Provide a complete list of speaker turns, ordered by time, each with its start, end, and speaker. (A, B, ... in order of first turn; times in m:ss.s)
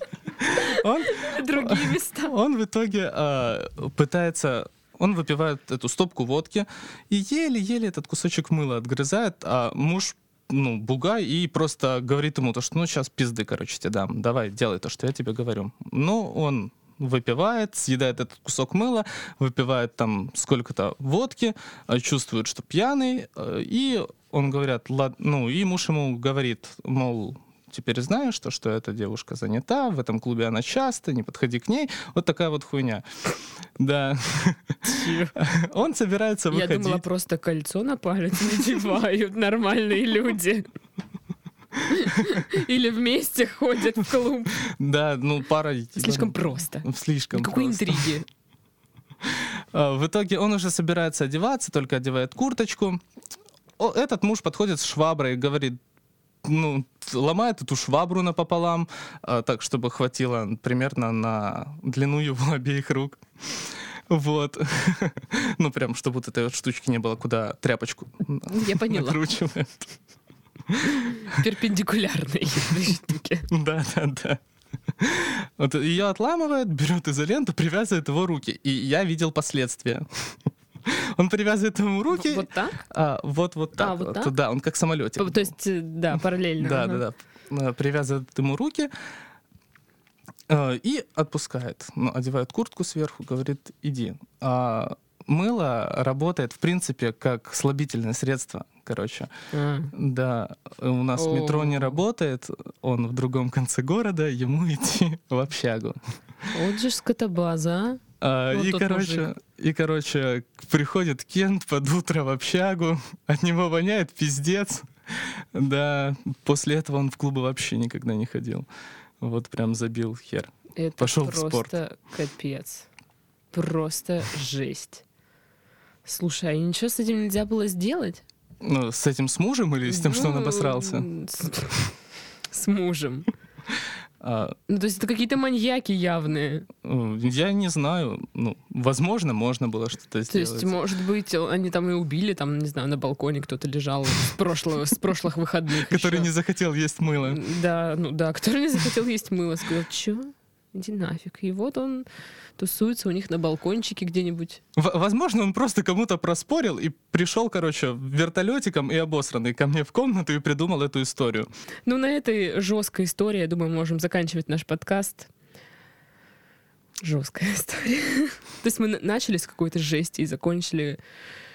0:00.4-0:33.0 A
0:00.6-0:02.3 B
0:33.8-0:34.8 A
0:34.8-0:35.3 B
0:35.3-0:37.0 A
0:36.5-0:40.6 B
0:41.8-0:44.6 B
0:44.6-0:48.2 A
0:46.0-0:48.2 B
0:49.2-0:53.0 A
0:53.8-0:55.8 A
0:56.4-1:09.9 A
1:08.5-1:09.2 B
1:10.7-1:11.4 A
1:11.0-1:13.5 B
1:13.5-1:14.4 A
1:15.0-1:25.5 A
1:22.1-1:22.8 B
1:23.8-1:24.3 B
1:25.2-1:27.0 B
1:26.6-1:28.9 A
1:30.5-1:39.3 A
1:39.5-1:39.9 B
1:39.9-1:46.0 A
1:41.2-1:42.0 B
1:46.5-1:49.3 B
1:48.2-1:58.7 A
1:59.2-2:01.7 A
2:00.8-2:02.9 B
2:03.5-2:05.0 B
2:06.0-2:08.2 B
2:08.6-2:11.1 A
2:09.9-2:11.9 B
2:12.5-2:13.3 B
2:14.2-2:14.6 A
2:14.7-2:16.7 B
2:16.8-2:20.8 A
2:20.3-2:26.3 B
2:25.8-2:27.4 A
2:27.2-2:32.1 B
2:32.6-2:34.6 B
2:34.8-2:41.5 A
2:41.8-2:45.3 B
2:47.0-2:51.0 B